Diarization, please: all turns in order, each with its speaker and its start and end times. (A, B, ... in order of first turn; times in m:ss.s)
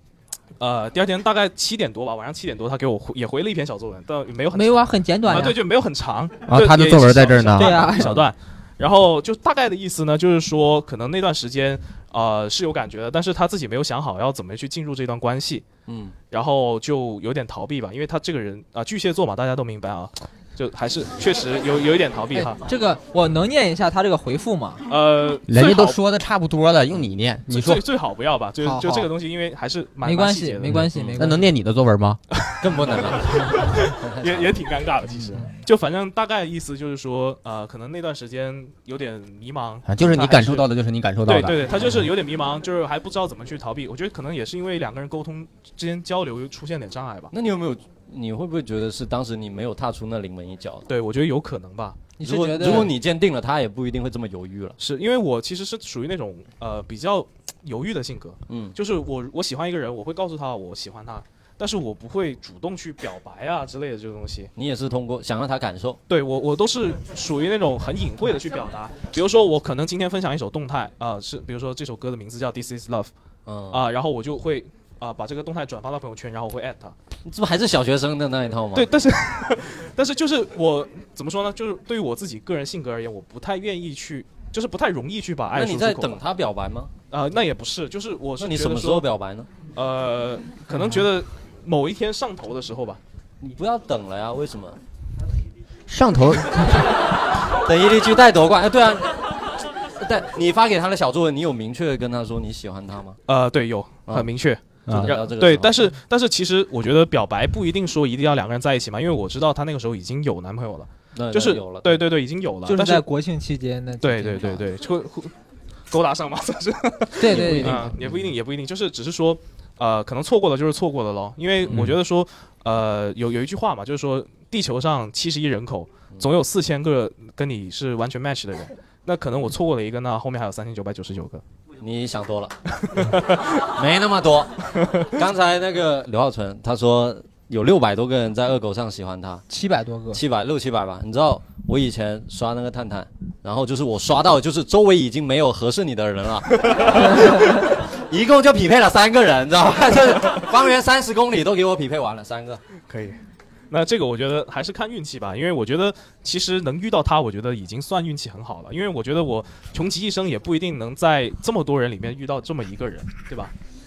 0:00.6-0:15.7 A
0:04.5-0:05.6 B
0:06.5-0:08.1 C
0:07.6-0:08.1 B
0:15.9-0:16.1 D
0:16.3-0:22.6 A
0:22.3-0:24.8 B
0:24.9-0:26.0 A
0:25.4-0:27.8 C
0:27.5-0:30.8 A
0:28.6-0:29.1 B
0:30.0-0:31.5 B
0:30.7-0:31.2 D
0:31.2-0:32.2 C
0:32.3-0:40.6 A
0:32.6-0:34.6 D
0:39.8-0:41.6 C
0:41.2-0:47.3 A
0:47.3-0:50.9 D
0:50.9-0:52.1 A
0:52.2-0:52.9 B
0:52.2-0:54.8 D
0:52.6-0:52.9 A
0:54.8-1:04.5 A
0:58.5-0:58.7 D
1:04.6-1:06.0 D
1:06.1-1:13.1 A
1:13.4-1:13.8 D
1:13.7-1:16.9 A
1:17.2-1:18.9 D
1:18.7-1:26.2 A
1:25.5-1:26.9 D
1:27.1-1:29.1 A
1:28.4-1:29.5 D
1:29.7-1:33.0 A
1:33.4-1:34.8 D
1:35.9-1:36.9 C
1:37.6-1:39.4 D
1:40.0-1:43.2 D
1:43.3-1:53.0 A
1:44.9-1:45.9 D
1:51.1-1:52.0 D
1:52.6-1:54.6 B
1:54.0-1:55.3 A
1:55.9-2:11.4 A
1:57.2-1:57.9 B
1:57.3-1:58.3 D
2:01.7-2:02.0 D
2:11.8-2:12.5 D
2:12.8-2:13.6 A
2:13.7-2:19.4 D
2:14.8-2:15.1 A
2:19.5-2:20.2 B
2:20.1-2:32.6 D
2:26.6-2:27.0 A
2:32.9-2:33.2 A
2:33.7-2:43.5 A